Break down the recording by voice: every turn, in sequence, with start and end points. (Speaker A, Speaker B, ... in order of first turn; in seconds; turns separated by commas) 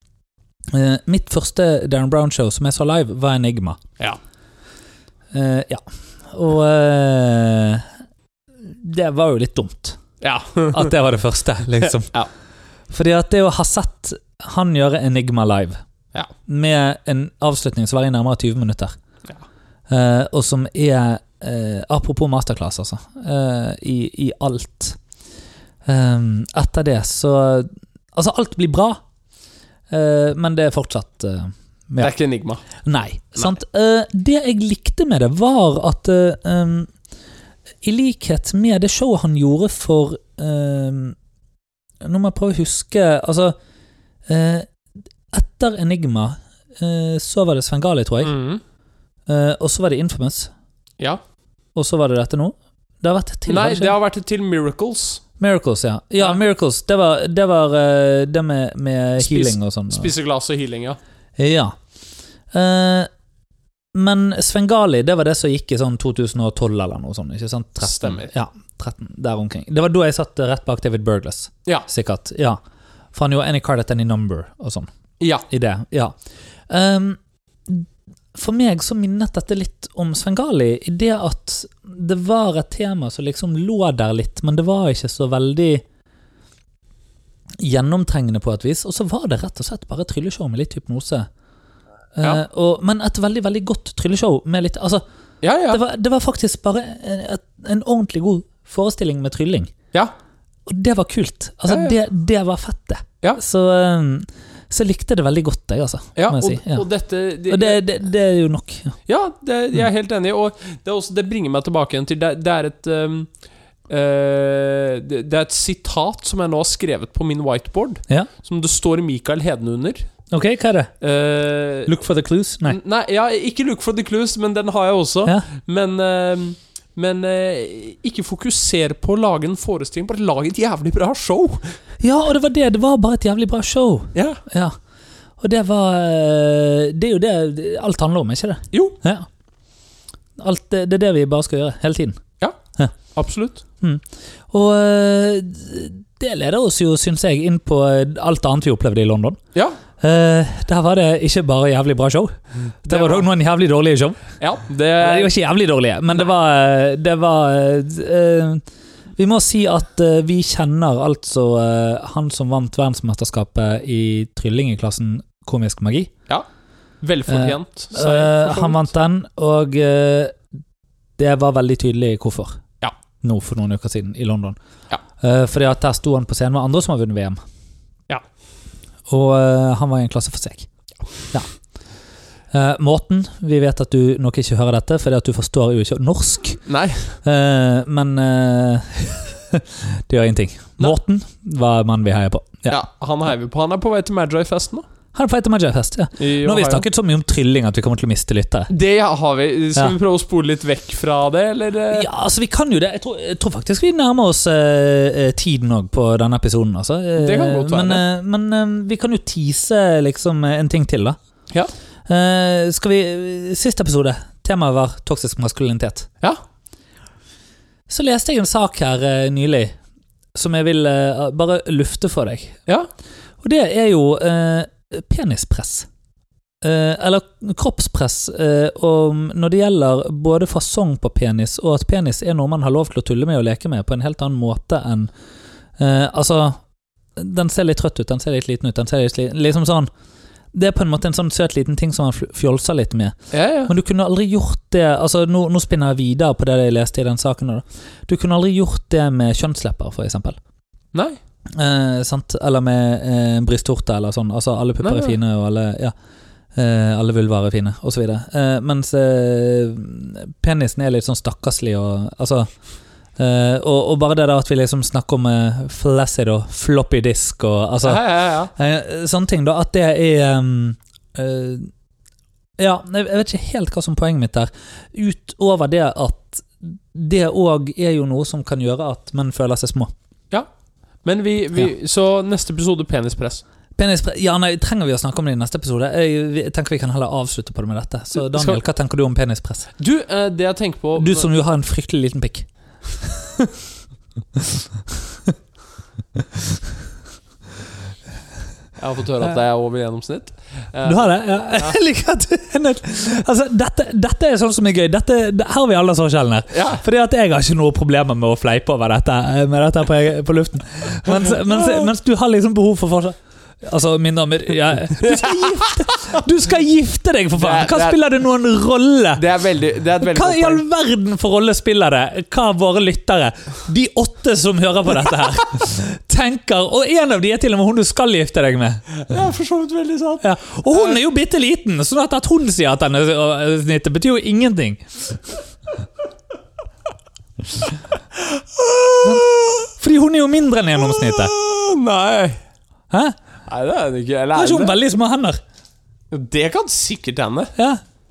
Speaker A: 0.7-3.8, Speaker A: 5.3-7.9, Speaker A: 8.6-10.0, Speaker B: 10.2-10.9, Speaker A: 10.7-12.1, Speaker A: 12.9-15.8, Speaker A: 16.5-18.9, Speaker A: 19.9-25.0, Speaker A: 25.9-29.0, Speaker A: 29.9-32.1, Speaker B: 32.0-32.6, Speaker A: 32.8-36.9, Speaker A: 37.8-41.1, Speaker A: 42.0-43.5, Speaker A: 44.3-44.7, Speaker A: 45.3-48.3, Speaker B: 48.2-48.6, Speaker A: 49.3-50.5, Speaker A: 51.7-54.0, Speaker B: 53.5-55.2, Speaker A: 55.4-60.1, Speaker B: 59.2-61.0, Speaker A: 61.4-61.7, Speaker A: 62.5-63.1, Speaker A: 63.9-72.6, Speaker B: 67.8-68.3, Speaker A: 73.1-74.9, Speaker B: 75.2-75.4, Speaker A: 75.5-76.1, Speaker A: 76.7-85.8, Speaker A: 87.6-91.3, Speaker A: 92.1-95.0, Speaker B: 95.4-95.8, Speaker A: 95.7-99.7, Speaker A: 100.7-106.8, Speaker B: 101.7-102.0, Speaker B: 106.2-107.8, Speaker A: 107.5-108.9, Speaker B: 109.1-113.3, Speaker B: 113.9-120.1, Speaker A: 120.3-120.9, Speaker B: 121.0-121.9, Speaker A: 121.8-122.8, Speaker B: 122.6-131.6, Speaker A: 132.0-134.8, Speaker B: 134.1-134.4, Speaker A: 135.4-139.2, Speaker B: 138.7-139.0, Speaker A: 140.4-142.2, Speaker B: 143.1-143.6, Speaker A: 143.8-149.4, Speaker A: 150.0-152.3, Speaker B: 152.8-153.3, Speaker A: 152.8-154.2, Speaker B: 154.4-155.3, Speaker A: 155.0-158.6, Speaker A: 159.2-166.1, Speaker B: 167.0-168.8, Speaker A: 167.3-170.4, Speaker A: 171.2-172.6, Speaker A: 173.2-174.6, Speaker A: 175.2-177.4, Speaker A: 179.1-180.7, Speaker A: 182.5-186.6, Speaker B: 186.7-187.2, Speaker A: 187.2-192.8, Speaker B: 192.7-194.8, Speaker A: 195.1-198.7, Speaker B: 196.2-196.8, Speaker B: 198.7-202.1, Speaker A: 201.9-211.2, Speaker B: 207.2-208.0, Speaker A: 212.1-216.1, Speaker A: 217.9-219.8, Speaker A: 220.3-222.6, Speaker A: 223.4-225.9, Speaker A: 226.6-235.1, Speaker A: 235.8-236.6, Speaker A: 237.2-239.9, Speaker A: 240.5-243.2, Speaker B: 243.3-243.7, Speaker A: 243.7-250.4, Speaker B: 250.9-251.2, Speaker A: 251.5-255.9, Speaker B: 254.8-255.2, Speaker A: 256.5-262.5, Speaker A: 263.2-271.7, Speaker B: 267.8-268.5, Speaker A: 272.6-279.9, Speaker B: 281.0-283.4, Speaker A: 283.8-289.7, Speaker B: 288.2-288.6, Speaker B: 289.8-291.3, Speaker A: 290.9-292.5, Speaker A: 293.0-293.6, Speaker A: 294.4-295.3, Speaker A: 296.2-296.6, Speaker B: 298.8-301.7, Speaker A: 300.8-319.2, Speaker B: 306.5-306.8, Speaker B: 311.1-311.9, Speaker B: 315.0-316.1, Speaker B: 317.4-318.0, Speaker B: 319.1-320.6, Speaker A: 320.0-328.8, Speaker B: 328.9-331.0, Speaker A: 330.2-335.3, Speaker B: 338.1-339.7, Speaker A: 339.0-341.3, Speaker B: 341.0-342.4, Speaker A: 342.9-343.1, Speaker B: 343.4-344.8, Speaker A: 344.3-345.4, Speaker B: 346.1-347.5, Speaker A: 347.6-347.8